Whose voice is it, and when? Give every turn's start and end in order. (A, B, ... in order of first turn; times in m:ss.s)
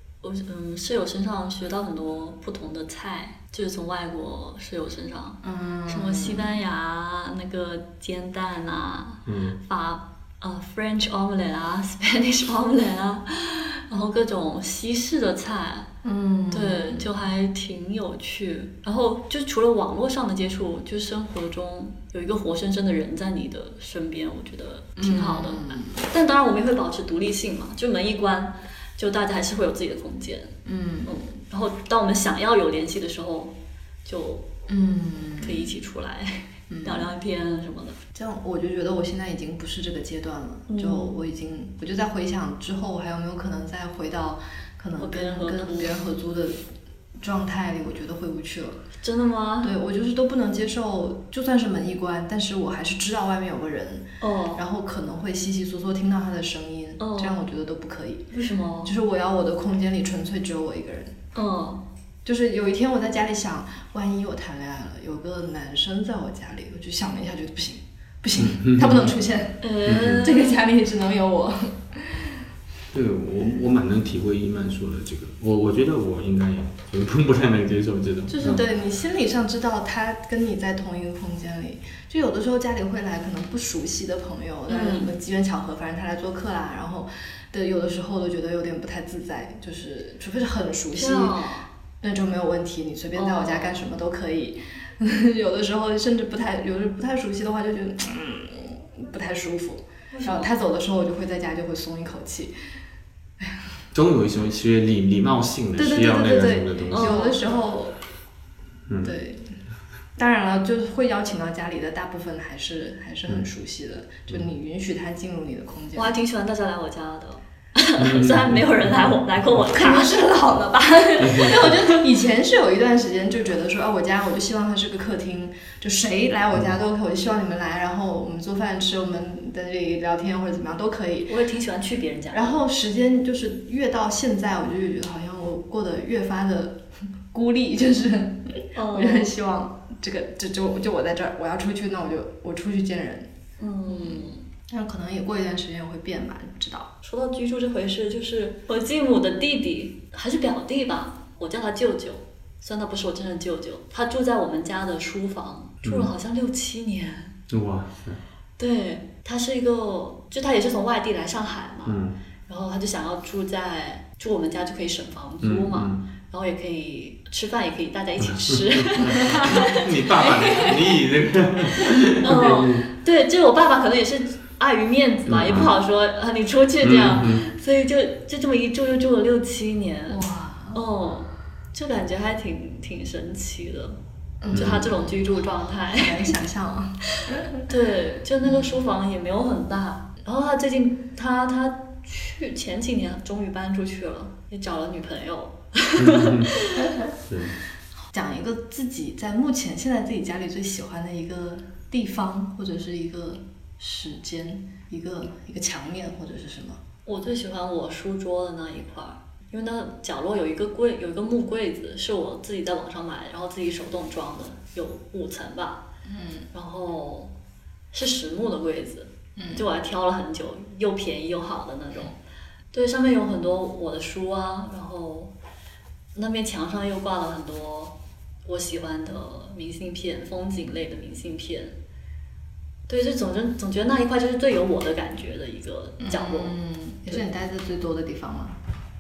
0:00.2-0:15.9 A
0:05.4-0:06.5 B
0:09.3-0:09.6 C
0:16.0-0:17.1 B
0:16.5-0:33.5 A
0:25.0-0:26.0 B
0:30.6-0:31.1 B
0:34.0-0:34.5 A
0:34.7-0:35.7 B
0:35.4-0:38.0 A
0:36.7-0:37.1 B
0:38.1-0:46.6 B
0:40.7-0:41.2 A
0:45.0-0:45.9 A
0:47.2-0:48.8 B
0:49.0-0:49.8 A
0:49.6-0:58.3 B
0:54.2-0:54.6 A
0:57.0-0:57.4 A
0:58.3-0:58.9 A
0:58.8-1:01.1 B
1:01.3-1:01.8 A
1:02.2-1:12.3 B
1:08.4-1:09.1 C
1:09.6-1:10.6 A
1:09.8-1:10.2 C
1:12.9-1:18.6 C
1:18.3-1:31.4 B
1:24.7-1:25.1 A
1:31.0-1:31.7 A
1:32.0-1:42.6 B
1:33.2-1:33.8 A
1:40.1-1:40.5 A
1:43.4-1:43.7 B
1:43.9-1:47.1 C
1:45.8-1:48.0 B
1:46.9-1:47.4 A
1:48.9-1:49.2 C
1:49.0-1:49.5 B
1:50.2-1:56.1 B
1:56.0-2:00.1 A
1:58.0-1:58.6 C
1:59.7-2:11.3 B
2:01.2-2:01.7 C
2:01.7-2:01.9 A
2:11.3-2:12.6 A
2:12.3-2:23.3 B
2:18.8-2:19.3 A
2:23.6-2:24.4 A
2:23.9-2:26.9 B
2:27.0-2:37.4 A
2:35.8-2:36.1 C
2:37.5-2:38.2 C
2:38.6-2:49.6 A
2:41.8-2:42.2 C
2:45.4-2:46.0 C
2:48.5-2:52.9 C
2:50.2-2:50.8 B
2:52.2-3:00.2 A
2:55.3-2:55.7 C
2:56.8-2:57.4 C
3:00.1-3:00.8 B
3:00.7-3:04.0 A
3:04.4-3:07.6 B
3:04.5-3:04.9 C
3:04.5-3:06.3 A
3:07.2-3:16.8 A
3:08.4-3:08.8 B
3:16.0-3:16.5 C
3:17.3-3:17.6 C
3:18.1-3:26.8 B
3:27.1-3:35.8 A
3:36.1-3:36.5 B
3:36.5-3:37.3 A
3:37.9-3:42.2 A
3:39.4-3:39.6 B
3:42.7-3:45.3 A
3:46.2-3:51.8 A
3:52.9-3:56.5 A
3:56.0-3:58.6 B